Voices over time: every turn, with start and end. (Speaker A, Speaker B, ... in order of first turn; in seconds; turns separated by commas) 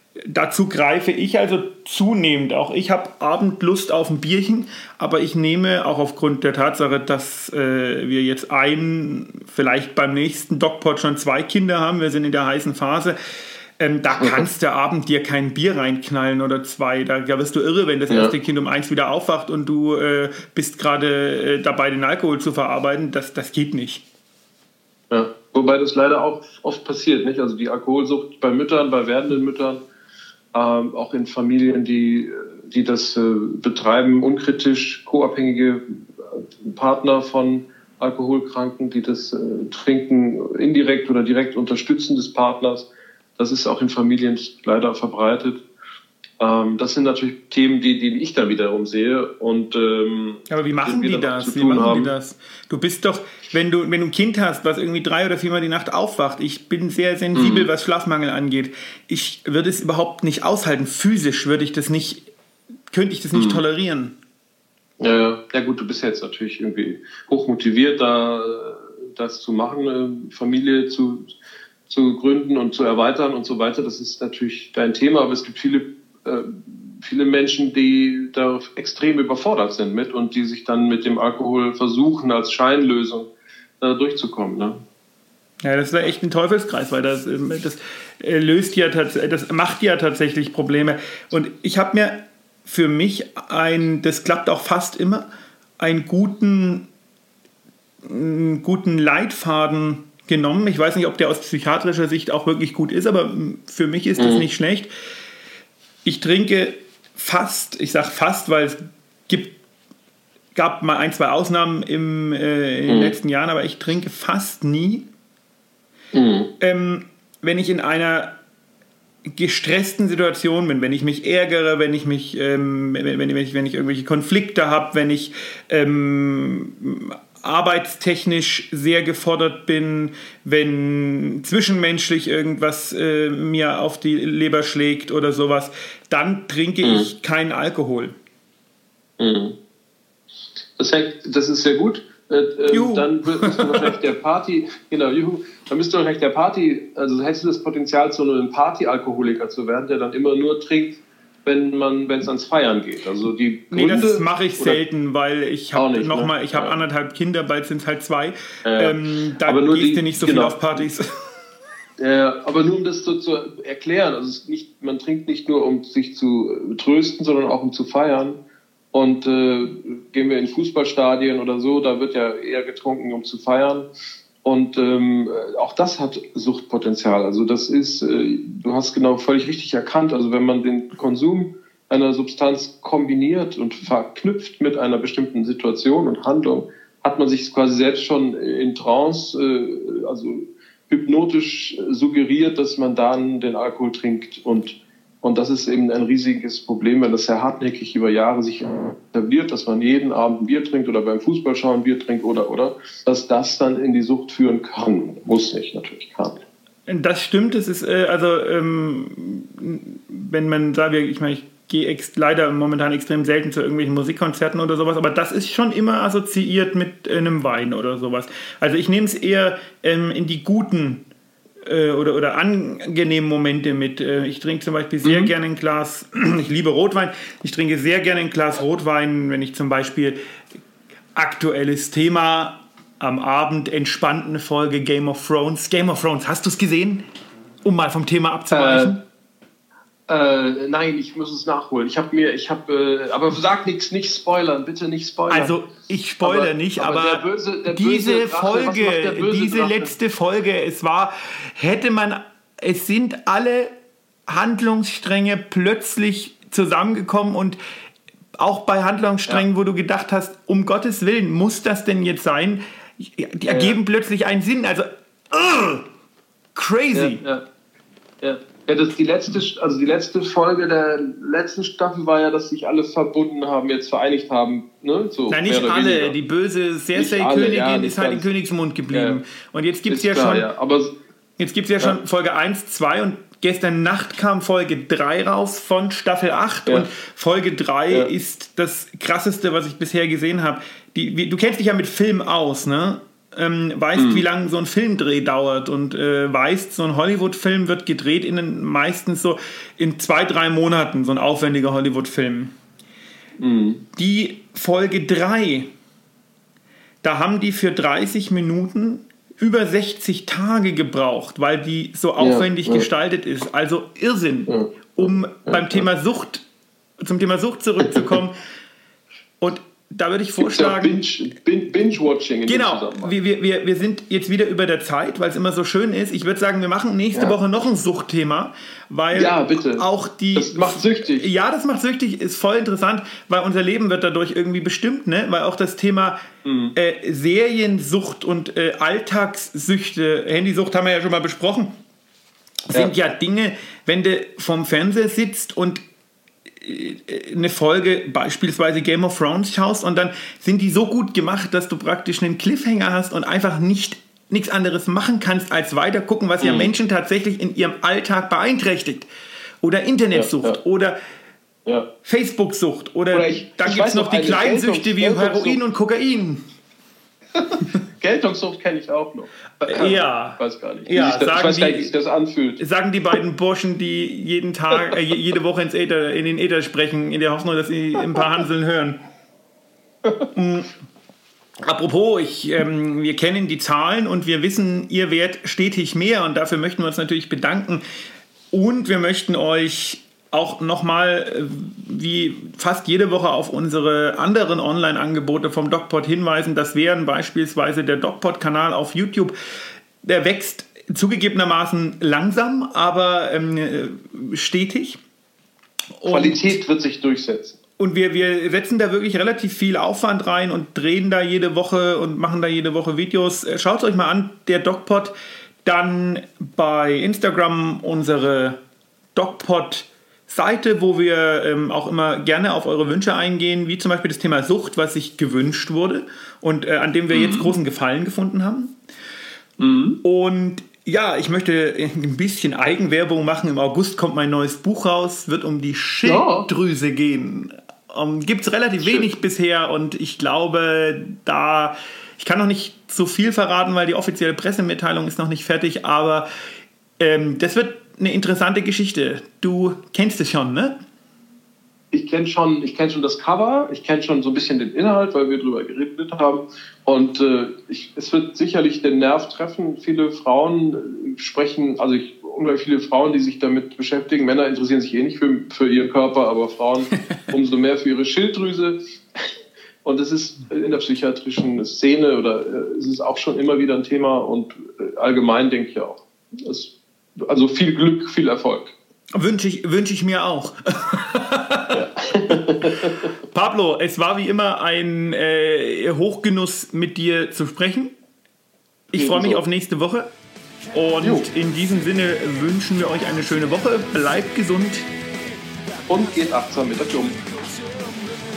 Speaker A: 0.3-13.2, Speaker A: 13.8-24.0, Speaker B: 18.1-18.3, Speaker B: 25.1-29.8, Speaker B: 30.5-45.6, Speaker B: 46.4-52.1, Speaker A: 50.5-62.2, Speaker B: 57.3-57.7, Speaker A: 62.9-64.1, Speaker B: 63.3-63.6, Speaker B: 65.0-71.3, Speaker B: 71.9-84.8, Speaker A: 85.6-95.2, Speaker A: 95.8-96.9, Speaker A: 98.0-104.9, Speaker B: 104.2-104.5, Speaker A: 106.0-109.5, Speaker A: 110.5-115.0, Speaker B: 112.9-113.2, Speaker B: 116.1-116.5, Speaker A: 116.6-118.3, Speaker A: 119.3-138.1, Speaker B: 136.8-137.1, Speaker B: 139.2-139.5, Speaker B: 140.8-154.8, Speaker A: 142.7-143.8, Speaker A: 153.7-161.0, Speaker B: 155.7-156.8, Speaker B: 158.6-160.8, Speaker B: 162.0-168.4, Speaker B: 168.9-173.9, Speaker B: 174.4-206.4, Speaker A: 206.9-221.0, Speaker A: 221.7-230.2, Speaker B: 225.0-225.3, Speaker A: 231.1-237.0, Speaker A: 237.6-239.0, Speaker B: 238.5-238.9, Speaker B: 240.1-245.6, Speaker A: 245.3-253.7, Speaker B: 246.2-249.9, Speaker A: 254.3-257.6, Speaker A: 258.4-265.8, Speaker B: 263.5-263.8, Speaker A: 266.5-267.2, Speaker B: 266.9-267.4, Speaker B: 268.2-276.2, Speaker A: 275.3-280.5, Speaker B: 276.9-278.3, Speaker B: 278.9-279.2, Speaker B: 279.9-280.9, Speaker A: 281.4-302.5, Speaker B: 293.9-294.2, Speaker B: 303.4-303.8, Speaker A: 303.9-305.7, Speaker A: 307.0-316.4, Speaker B: 312.2-312.9, Speaker B: 314.5-315.9, Speaker A: 317.0-318.4, Speaker A: 319.4-321.0, Speaker B: 320.4-323.1, Speaker A: 322.5-336.2, Speaker B: 329.1-331.3, Speaker B: 336.4-336.7, Speaker A: 336.8-341.7, Speaker A: 342.7-345.8, Speaker A: 346.6-359.1, Speaker B: 356.4-356.7, Speaker A: 359.6-361.0, Speaker B: 360.1-360.6, Speaker A: 362.0-366.4, Speaker B: 363.1-365.6, Speaker B: 367.4-372.6, Speaker A: 369.7-371.9, Speaker A: 372.6-379.0, Speaker A: 380.3-380.7, Speaker A: 381.6-387.8, Speaker A: 388.5-399.3, Speaker A: 400.0-405.0, Speaker A: 406.0-406.6, Speaker B: 406.1-407.6, Speaker A: 407.8-415.1, Speaker A: 415.6-418.6, Speaker A: 419.1-428.7, Speaker B: 427.1-427.5, Speaker B: 429.6-430.0, Speaker A: 430.0-446.3, Speaker B: 436.0-436.5, Speaker B: 438.8-439.1, Speaker A: 447.0-450.7, Speaker B: 451.9-468.8, Speaker B: 469.8-476.7, Speaker B: 477.3-478.7, Speaker A: 479.1-481.8, Speaker B: 481.7-483.1, Speaker A: 483.3-487.9, Speaker A: 488.9-490.1, Speaker B: 488.9-489.4, Speaker A: 490.7-494.9, Speaker B: 491.0-491.3, Speaker B: 495.9-497.2